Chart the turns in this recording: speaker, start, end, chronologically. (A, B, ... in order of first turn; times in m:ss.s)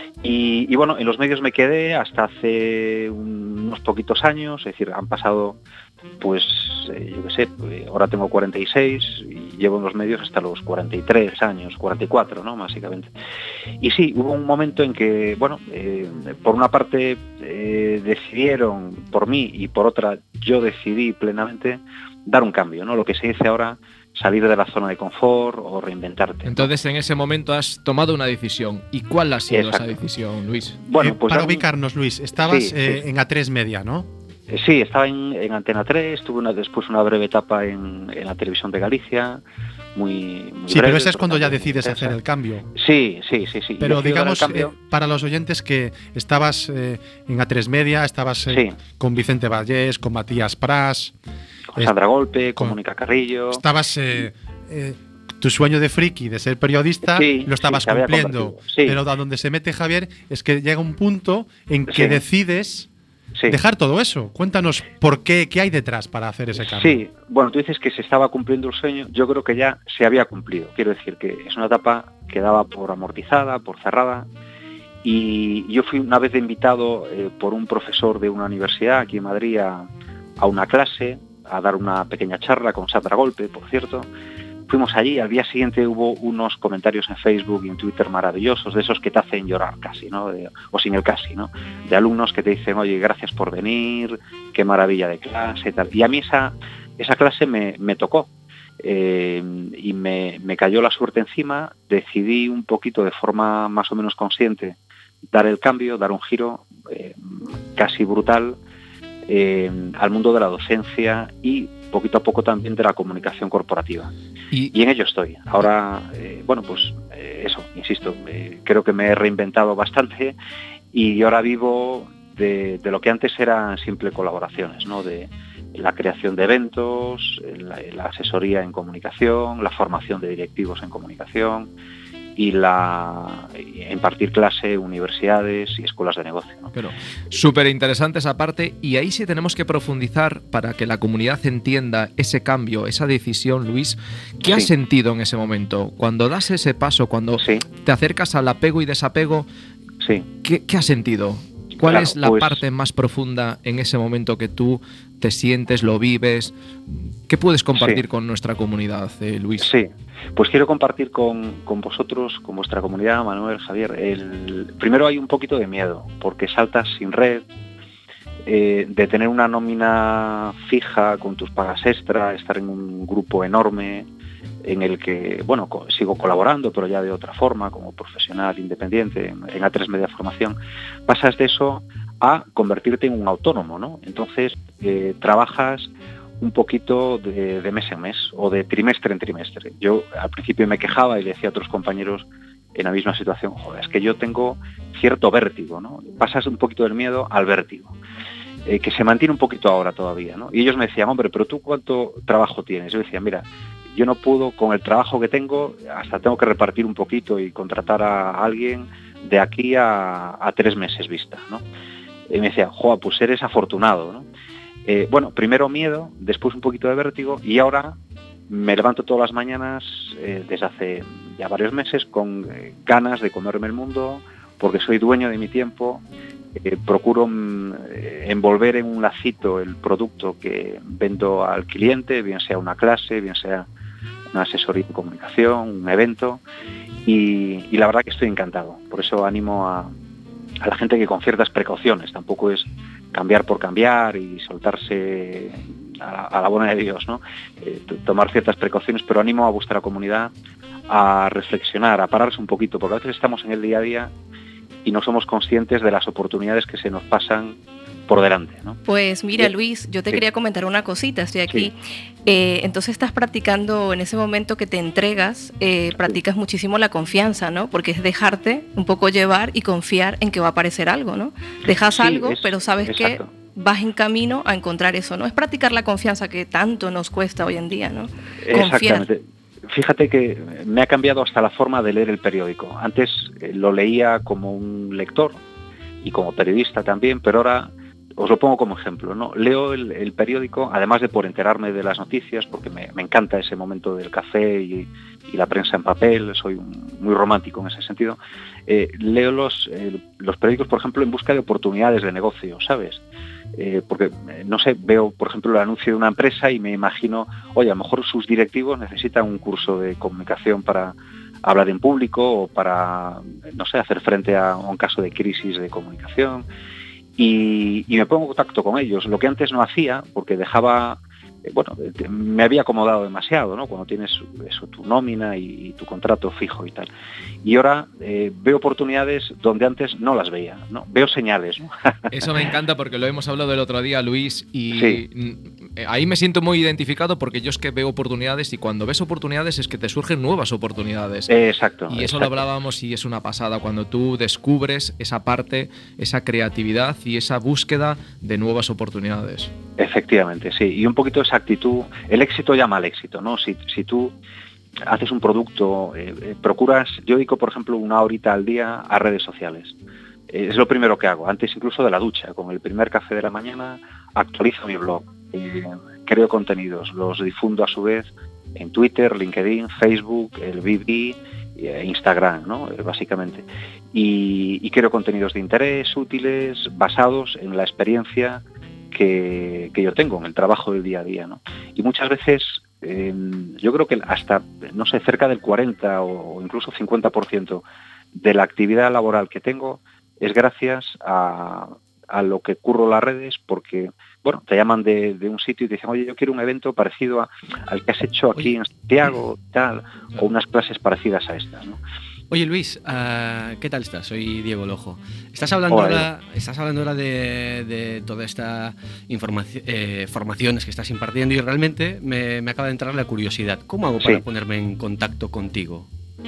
0:00.2-0:05.6 A
0:06.2-0:13.1 A
0:13.8-0:26.7 A
0:26.4-0:30.8 B
0:29.5-0:29.9 A
0:30.8-0:31.6 A
0:31.0-0:34.1 C
0:32.4-0:33.0 A
0:34.5-0:39.4 A
0:39.9-0:42.1 A
0:40.7-0:42.7 C
0:42.7-0:44.7 A
0:43.8-0:51.1 C
0:48.5-0:48.8 A
0:51.8-0:53.6 A
0:53.5-1:02.9 C
0:57.1-0:59.0 A
1:01.9-1:02.2 A
1:03.5-1:07.0 C
1:06.6-1:14.3 A
1:15.0-1:19.9 A
1:20.4-1:24.1 A
1:24.7-1:38.3 A
1:38.8-1:44.8 A
1:45.3-1:47.2 A
1:47.7-1:48.6 A
1:49.3-1:54.1 A
1:54.7-2:00.4 A
2:00.9-2:11.7 A
2:12.4-2:16.7 A
2:16.7-2:29.5 B
2:24.4-2:24.7 A
2:30.0-2:30.3 A
2:30.4-2:39.7 B
2:31.8-2:32.6 A
2:37.7-2:38.0 A
2:39.6-2:47.4 A
2:48.5-2:54.1 A
2:54.6-3:17.9 A
3:18.7-3:31.6 A
3:32.3-3:34.3 A
3:34.8-3:38.0 A
3:38.5-3:46.0 A
3:46.6-3:53.7 A
3:54.3-3:56.4 A
3:57.0-3:59.9 A
4:00.6-4:10.3 A
4:10.9-4:14.1 A
4:14.8-4:18.8 A
4:18.8-4:39.0 D
4:31.7-4:33.3 A
4:38.4-4:45.4 A
4:46.0-5:03.0 A
5:03.5-5:16.4 A
5:17.2-5:26.9 A
5:27.4-5:32.1 A
5:32.1-5:41.3 B
5:34.7-5:35.0 A
5:41.3-5:42.4 A
5:41.9-5:49.5 B
5:49.8-5:54.1 A
5:54.9-5:59.7 A
6:00.3-6:41.8 A
6:42.3-6:55.9 E
6:45.7-6:46.1 A